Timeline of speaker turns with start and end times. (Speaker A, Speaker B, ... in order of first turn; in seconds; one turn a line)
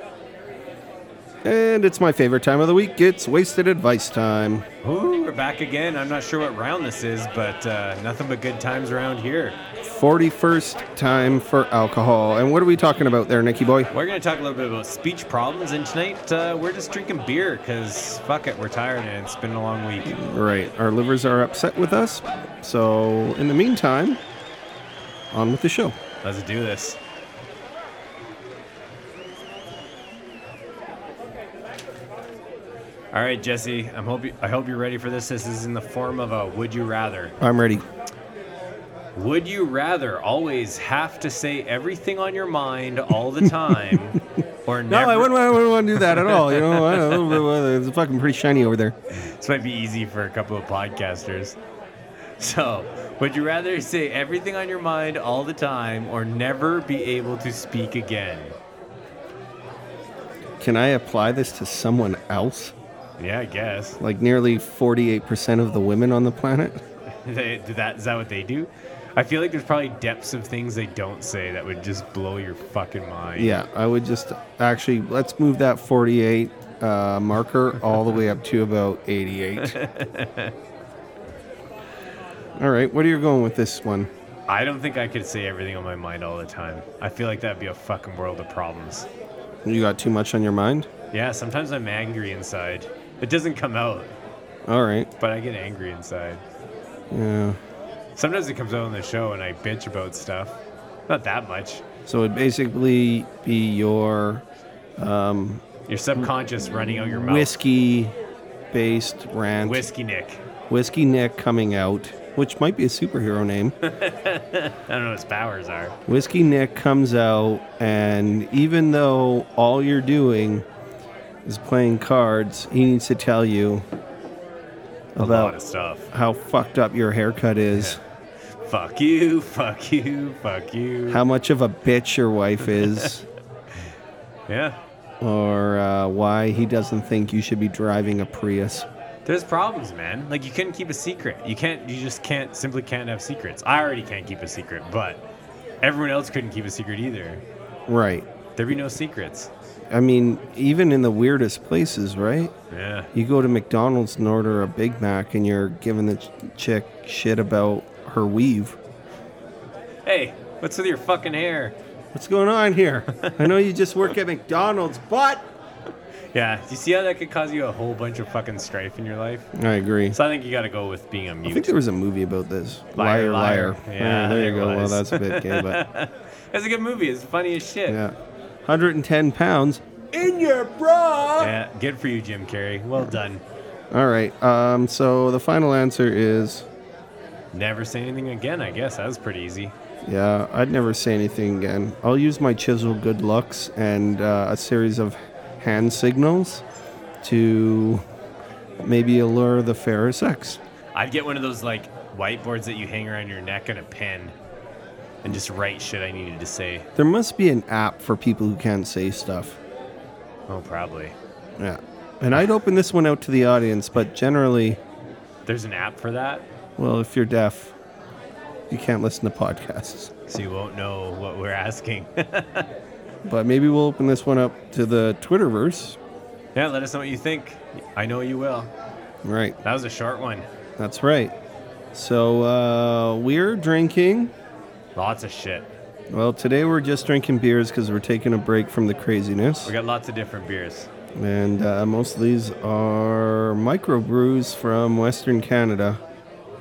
Speaker A: 1.4-4.7
Speaker B: 4.8-9.6
Speaker A: 9.8-13.9
Speaker B: 13.9-20.1
Speaker A: 20.1-24.2
Speaker A: 25.3-26.0
Speaker B: 26.2-27.0
Speaker B: 33.1-37.4
Speaker A: 37.4-37.9
Speaker B: 39.2-47.4
Speaker A: 44.9-49.0
Speaker B: 49.1-51.6
Speaker B: 52.4-58.6
Speaker A: 60.6-62.8
Speaker B: 63.2-64.0
Speaker A: 64.0-66.8
Speaker B: 67.2-73.6
Speaker A: 73.4-79.8
Speaker B: 79.6-80.5
Speaker A: 82.6-84.1
Speaker B: 84.5-89.1
Speaker A: 89.7-90.9
Speaker B: 91.1-94.1
Speaker A: 94.7-95.1
Speaker B: 95.2-96.4
Speaker A: 97.1-97.6
Speaker B: 98.2-101.8
Speaker A: 102.1-104.4
Speaker A: 105.0-105.6
Speaker B: 105.9-107.6
Speaker A: 107.2-108.2
Speaker A: 108.7-109.8
Speaker B: 109.6-110.4
Speaker A: 110.7-113.8
Speaker B: 113.8-116.0
Speaker A: 116.1-120.7
Speaker A: 121.5-123.8
Speaker A: 125.2-125.6
Speaker B: 125.2-126.1
Speaker A: 126.1-128.0
Speaker B: 127.7-128.0
Speaker B: 128.6-131.2
Speaker A: 131.1-133.3
Speaker B: 134.5-134.8
Speaker A: 135.2-138.9
Speaker B: 139.3-145.2
Speaker B: 145.8-147.4
Speaker A: 147.9-148.3
Speaker B: 148.6-149.5
Speaker A: 149.9-152.5
Speaker B: 152.7-153.1
Speaker A: 153.1-158.8
Speaker B: 160.1-161.8
Speaker A: 162.1-165.5
Speaker B: 163.2-163.5
Speaker B: 166.3-169.5
Speaker A: 169.5-170.2
Speaker B: 170.1-171.7
Speaker A: 171.4-175.8
Speaker B: 172.9-178.0
Speaker A: 177.9-181.5
Speaker B: 181.4-183.4
Speaker A: 183.9-186.7
Speaker B: 187.5-189.7
Speaker A: 190.1-196.6
Speaker A: 197.2-198.0
Speaker A: 198.8-200.6
Speaker B: 200.9-204.3
Speaker B: 205.2-206.9
Speaker A: 207.0-209.6
Speaker B: 210.5-211.2
Speaker A: 211.6-214.8
Speaker B: 215.5-216.4
Speaker A: 216.8-217.7
Speaker A: 218.7-220.1
Speaker B: 220.3-222.7
Speaker A: 223.2-226.0
Speaker B: 226.6-228.7
Speaker A: 229.2-229.6
Speaker B: 229.6-230.5
Speaker A: 230.8-231.3
Speaker A: 231.9-234.3
Speaker B: 234.9-235.7
Speaker A: 236.1-239.7
Speaker B: 239.7-240.9
Speaker A: 241.2-246.0